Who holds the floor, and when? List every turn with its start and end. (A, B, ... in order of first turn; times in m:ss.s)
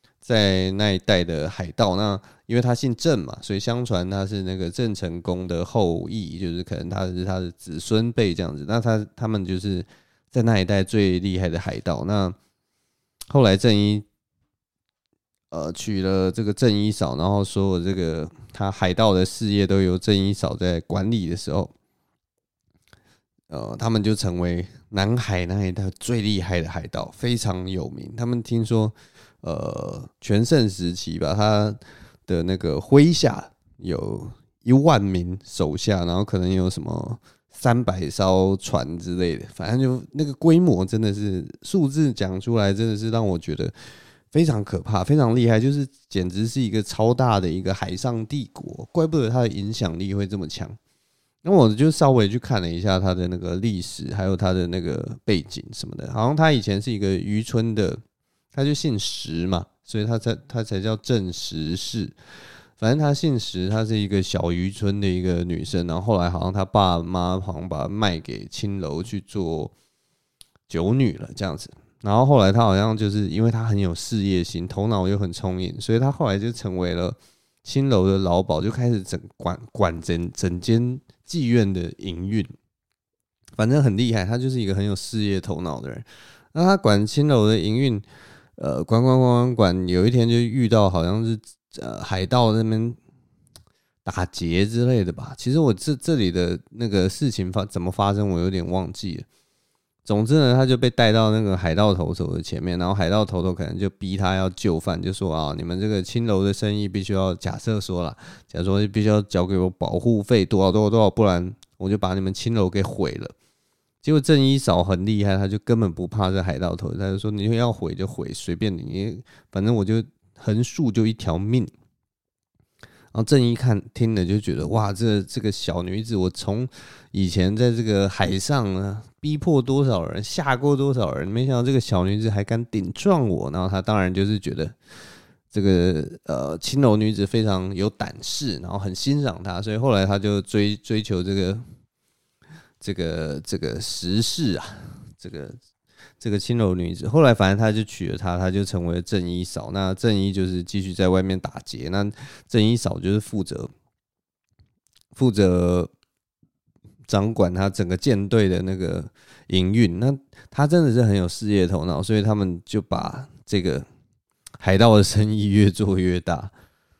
0:00.2-0:12.4 A
0:13.3-0:14.0 A
0:15.5-0:21.7 A
0:23.5-0:43.7 A
0:44.3-0:50.8 A
0:51.4-0:58.0 A
0:58.5-1:02.1 A
1:02.8-1:09.7 A
1:10.7-1:22.5 A
1:23.6-1:28.0 A
1:28.6-1:33.0 A
1:34.0-1:39.2 A
1:40.0-1:53.3 A
1:54.0-2:01.7 A
2:03.1-2:14.8 A
2:15.5-2:21.6 A
2:22.8-2:25.6 A
2:26.2-2:33.7 A
2:35.1-2:35.9 A
2:37.1-2:43.8 A
2:44.6-2:46.5 A